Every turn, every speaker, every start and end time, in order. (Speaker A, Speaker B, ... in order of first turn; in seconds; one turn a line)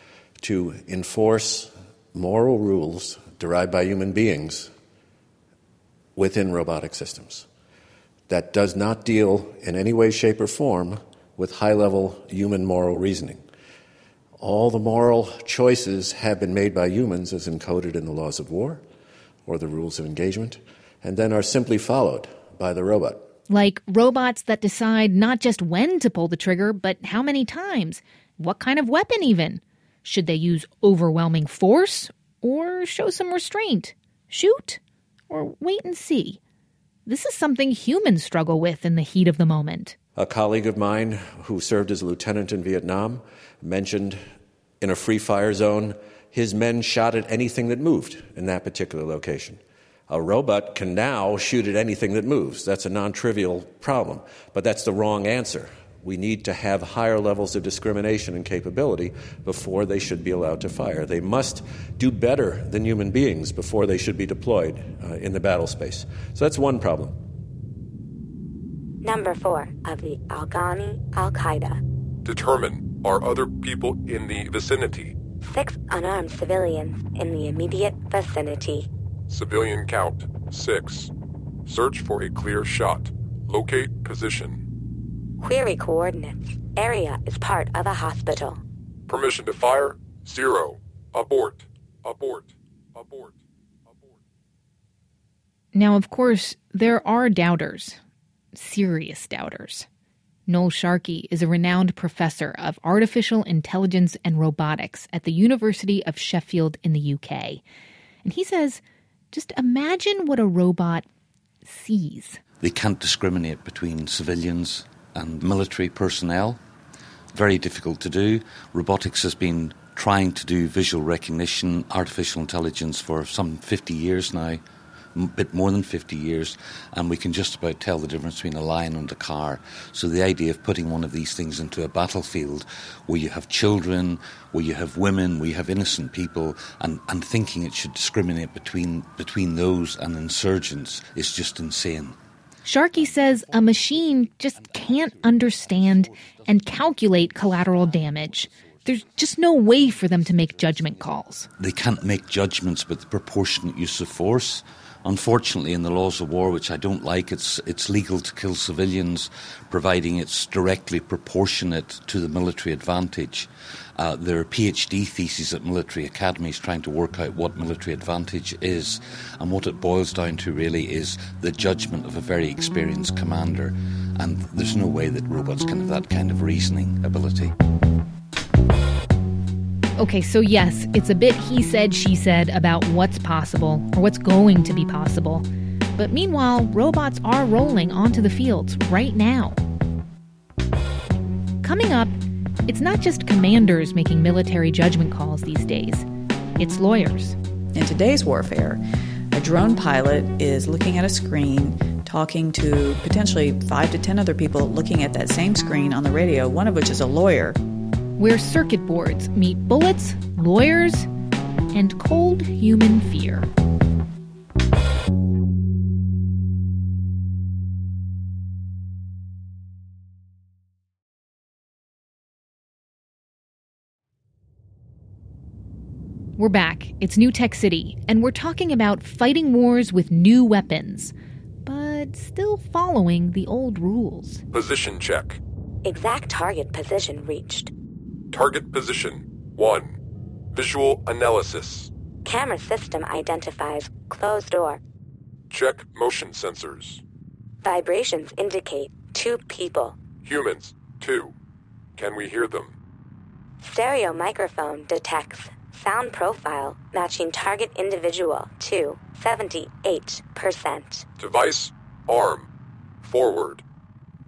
Speaker A: 0.4-4.7
Speaker A: 6.2-7.5
Speaker A: 8.3-13.4
Speaker A: 14.4-18.8
Speaker A: 19.5-23.2
Speaker B: 23.5-36.4
Speaker B: 37.1-40.0
Speaker A: 40.2-44.2
Speaker A: 44.8-67.1
Speaker C: 69.0-71.8
Speaker D: 72.2-75.2
Speaker C: 75.4-78.9
Speaker D: 79.3-81.1
Speaker D: 81.7-84.6
Speaker C: 85.4-88.6
Speaker D: 89.1-93.3
Speaker B: 95.7-98.0
Speaker B: 98.5-99.9
Speaker B: 100.5-107.6
Speaker B: 108.2-111.1
Speaker B: 111.7-112.4
Speaker E: 112.6-116.6
Speaker E: 117.3-124.6
Speaker E: 125.2-142.2
Speaker B: 142.6-151.5
Speaker E: 151.6-177.5
Speaker B: 180.0-185.5
Speaker B: 186.0-189.6
Speaker B: 191.6-192.2
Speaker B: 192.7-196.1
Speaker B: 196.6-197.4
Speaker F: 197.7-207.6
Speaker B: 208.2-211.1
Speaker B: 211.7-213.5
Speaker B: 226.4-231.1
Speaker B: 231.7-234.4
Speaker D: 234.5-235.4
Speaker C: 235.8-237.7
Speaker D: 238.3-239.9
Speaker D: 240.5-241.9
Speaker C: 242.2-244.8
Speaker D: 245.5-247.0
Speaker C: 247.6-250.0
Speaker D: 250.2-251.3
Speaker D: 252.0-252.7
Speaker C: 253.6-261.1
Speaker D: 261.2-262.5
Speaker D: 263.0-263.6